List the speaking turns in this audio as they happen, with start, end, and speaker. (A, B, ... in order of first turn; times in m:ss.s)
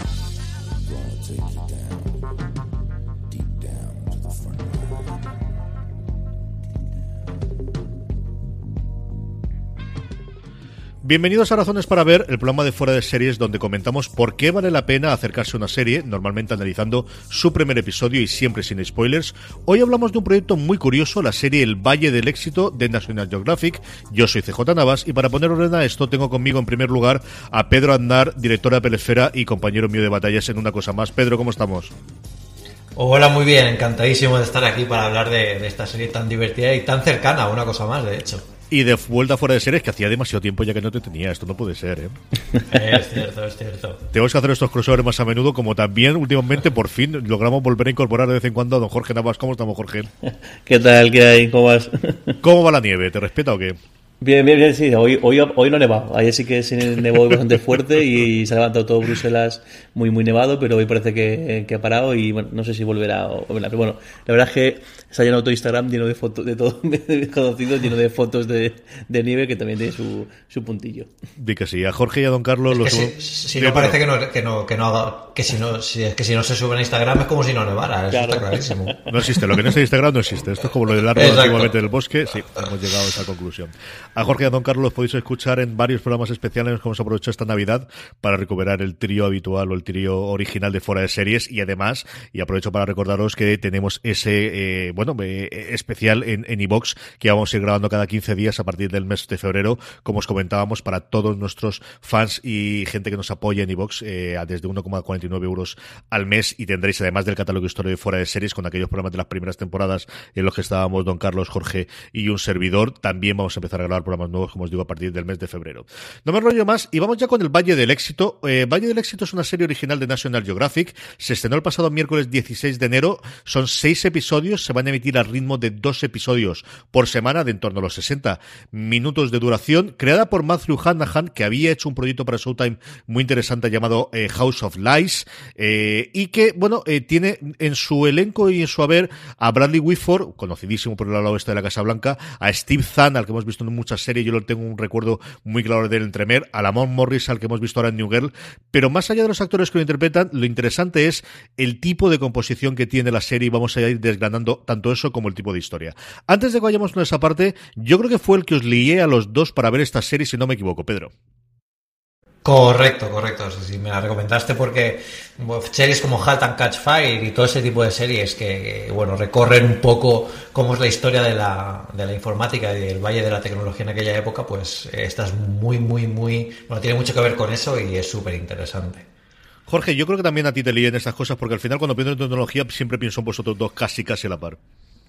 0:11.0-0:31.9 A
0:33.0-0:38.4 B
0:38.7-0:42.2 A
0:42.6-0:44.0 B
0:44.1-0:50.1 A
0:50.7-0:52.4 C
0:52.4-0:53.8 A
0:54.2-1:11.1 C
1:11.4-1:14.0 A
1:12.7-1:19.0 B
1:18.1-1:19.2 C
1:19.1-2:41.1 A
1:21.2-1:21.7 B
2:42.4-2:59.1 B
2:59.7-3:04.6 A